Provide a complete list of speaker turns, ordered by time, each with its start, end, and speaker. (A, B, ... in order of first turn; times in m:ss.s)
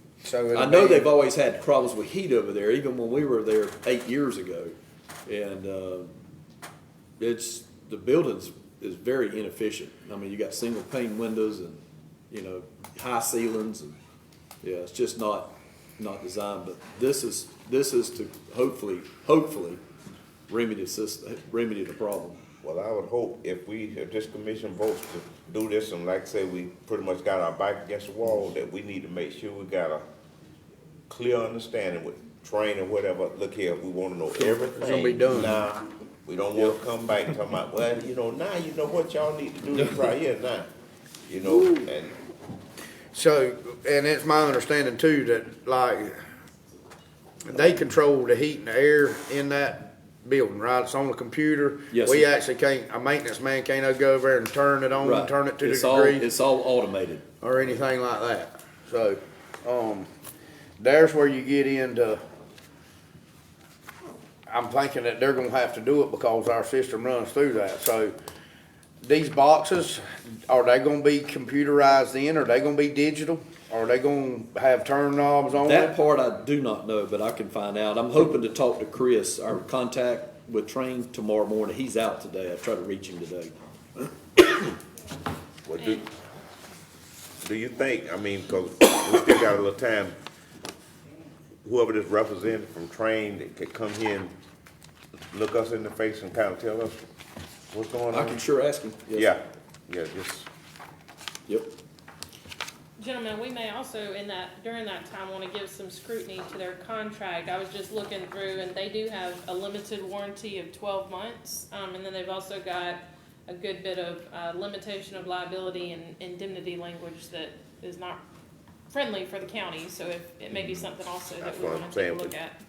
0:00.2-0:01.1 A
0:00.5-0:04.8 B
0:05.3-0:06.1 B
0:07.2-0:14.0 B
0:14.6-0:19.8 B
0:20.5-0:22.4 B
0:22.6-0:30.0 C
0:31.1-0:40.7 C
0:34.4-0:35.6 A
0:41.3-0:42.2 C
0:43.1-0:46.2 A
0:47.4-0:56.3 A
0:51.9-0:52.3 B
0:55.0-0:57.2 B
0:57.4-1:00.1 A
1:00.8-1:02.2 A
1:04.5-1:08.1 A
1:09.0-1:16.0 A
1:15.6-1:24.7 B
1:25.7-1:26.1 C
1:27.4-1:30.2 C
1:31.6-1:34.3 C
1:35.3-1:37.0 C
1:37.7-1:38.4 C
1:38.1-1:39.3 B
1:39.1-1:40.5 C
1:43.0-1:58.2 D
1:58.9-2:02.6 D
2:00.6-2:02.4 C